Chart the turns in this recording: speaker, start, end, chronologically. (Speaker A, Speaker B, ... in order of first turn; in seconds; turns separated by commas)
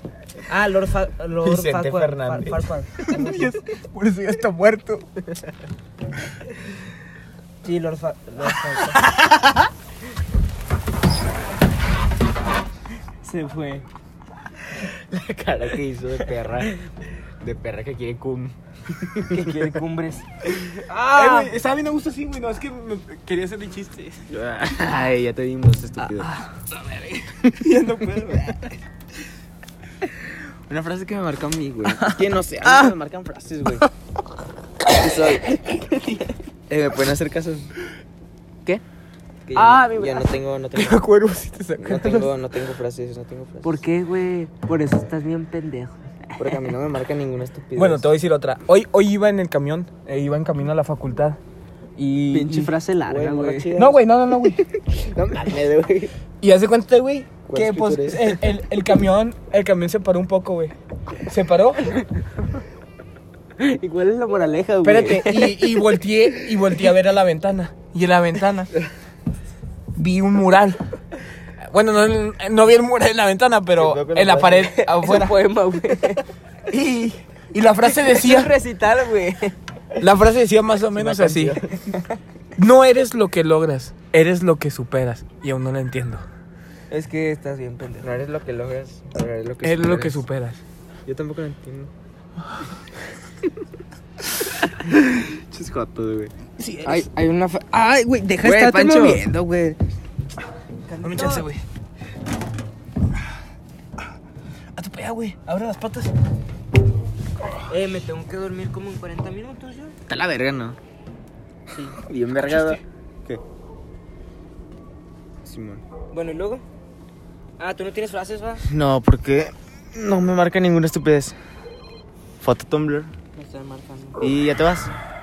Speaker A: 0.5-3.5, Speaker B: 1.4-2.7, Speaker C: 3.1-5.1, Speaker A: 7.6-9.0, Speaker A: 13.2-13.8, Speaker B: 15.1-16.7, Speaker B: 17.4-19.7, Speaker A: 19.3-21.5, Speaker C: 20.8-24.3, Speaker B: 24.3-26.3, Speaker C: 26.2-28.8, Speaker B: 30.7-33.9, Speaker B: 34.9-35.6, Speaker B: 36.7-37.7, Speaker B: 39.5-41.0, Speaker A: 39.5-40.3, Speaker C: 40.7-42.3, Speaker B: 41.8-43.8, Speaker A: 43.6-46.6, Speaker B: 46.4-48.1, Speaker C: 47.7-51.4, Speaker C: 52.0-52.7, Speaker A: 52.3-53.9, Speaker B: 53.1-54.0, Speaker C: 53.7-54.6, Speaker B: 54.8-56.1, Speaker C: 56.4-62.0, Speaker B: 57.5-58.4, Speaker A: 63.6-65.7, Speaker C: 64.8-68.7, Speaker C: 69.9-70.8, Speaker C: 71.6-75.4, Speaker B: 73.8-74.8, Speaker A: 74.7-76.2, Speaker A: 76.7-77.2, Speaker C: 77.5-78.5, Speaker A: 77.9-79.5, Speaker C: 80.0-81.6, Speaker B: 80.9-82.0, Speaker C: 82.5-86.2, Speaker A: 86.9-88.1, Speaker B: 88.0-90.2, Speaker C: 89.6-90.6, Speaker B: 91.0-91.9, Speaker B: 94.7-96.3, Speaker C: 96.6-97.1, Speaker A: 96.8-99.8, Speaker B: 98.4-99.2, Speaker A: 100.9-101.5, Speaker C: 101.0-101.6, Speaker C: 104.7-106.1, Speaker A: 107.7-110.0, Speaker B: 110.1-110.8, Speaker A: 111.7-112.0, Speaker B: 112.0-113.4, Speaker B: 115.4-115.8, Speaker A: 116.1-116.6, Speaker A: 117.6-118.6, Speaker B: 118.7-121.4, Speaker B: 122.4-123.1, Speaker A: 123.3-124.2, Speaker B: 124.2-124.9